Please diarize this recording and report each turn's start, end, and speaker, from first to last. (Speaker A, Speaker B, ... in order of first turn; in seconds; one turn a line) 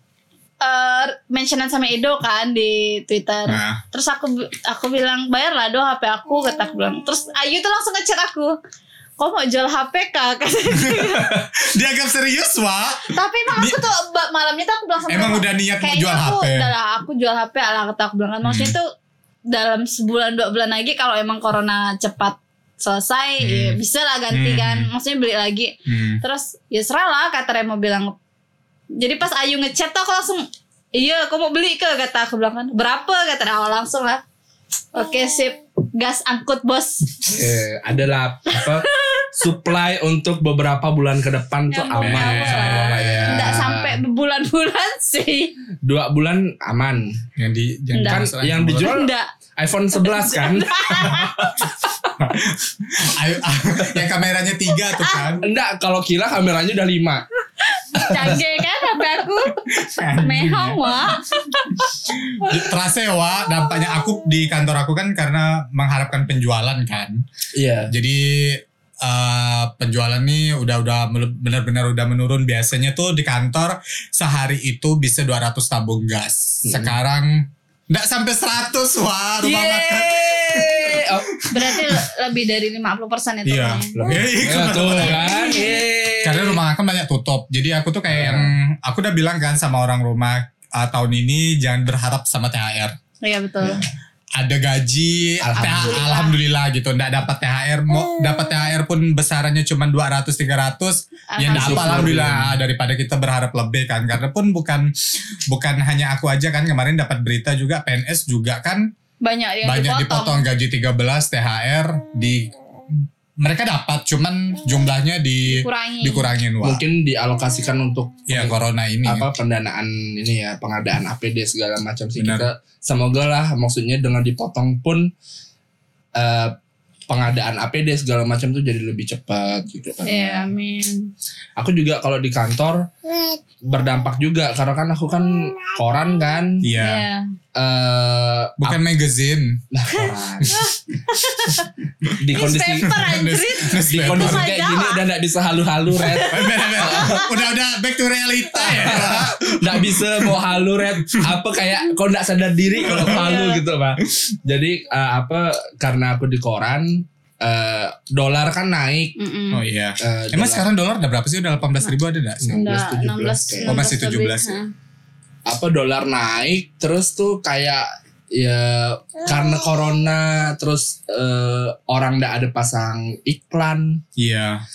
Speaker A: 0.6-8.5
Speaker B: 3.5-3.8
Speaker A: 9.2-11.4
Speaker B: 10.7-13.8
Speaker A: 13.1-18.9
Speaker B: 15.1-16.7
Speaker B: 18.4-18.8
Speaker A: 19.5-28.2
Speaker B: 23.4-23.8
Speaker B: 24.3-24.9
Speaker B: 25.9-26.2
Speaker A: 29.0-34.2
Speaker A: 34.9-37.3
Speaker C: 37.2-44.0
Speaker A: 38.6-39.3
Speaker A: 41.7-45.5
Speaker B: 42.0-43.6
Speaker C: 45.8-47.2
Speaker B: 47.4-49.0
Speaker A: 47.9-49.3
Speaker C: 48.1-51.2
Speaker A: 50.0-51.7
Speaker B: 51.0-51.3
Speaker B: 52.2-55.5
Speaker A: 54.9-55.2
Speaker C: 55.4-57.2
Speaker A: 57.6-59.6
Speaker B: 59.7-60.9
Speaker A: 60.1-61.8
Speaker B: 62.2-67.2
Speaker C: 67.5-67.9
Speaker B: 67.9-82.0
Speaker C: 76.7-77.0
Speaker C: 79.4-81.4
Speaker A: 81.5-84.0
Speaker B: 83.5-85.7
Speaker C: 84.0-86.6
Speaker A: 84.8-85.8
Speaker B: 86.2-93.0
Speaker C: 88.1-88.5
Speaker A: 93.2-93.8
Speaker B: 94.4-104.9
Speaker C: 95.4-96.3
Speaker A: 95.9-96.3
Speaker A: 101.3-102.1
Speaker C: 101.5-102.5
Speaker B: 105.5-108.9
Speaker A: 109.2-110.4
Speaker B: 109.6-116.8
Speaker A: 115.5-116.3
Speaker C: 116.6-125.1
Speaker B: 118.3-119.3
Speaker B: 122.2-122.5
Speaker C: 126.2-126.6
Speaker C: 127.1-130.5
Speaker A: 130.1-131.1
Speaker C: 131.6-132.9
Speaker C: 133.6-136.7
Speaker B: 136.6-137.1
Speaker A: 136.8-137.3
Speaker C: 137.6-138.8
Speaker B: 138.6-139.6
Speaker C: 139.7-140.6
Speaker A: 140.5-141.7
Speaker B: 142.0-144.5
Speaker C: 142.2-142.9
Speaker A: 142.3-145.0
Speaker C: 143.9-147.3
Speaker A: 146.0-147.4
Speaker B: 146.1-150.4
Speaker C: 148.5-159.2
Speaker B: 152.8-153.3
Speaker A: 153.1-153.6
Speaker A: 159.2-159.6
Speaker B: 159.5-162.7
Speaker C: 160.0-160.7
Speaker C: 162.4-163.9
Speaker A: 162.5-164.7
Speaker B: 163.7-164.6
Speaker C: 165.5-174.0
Speaker B: 174.2-174.6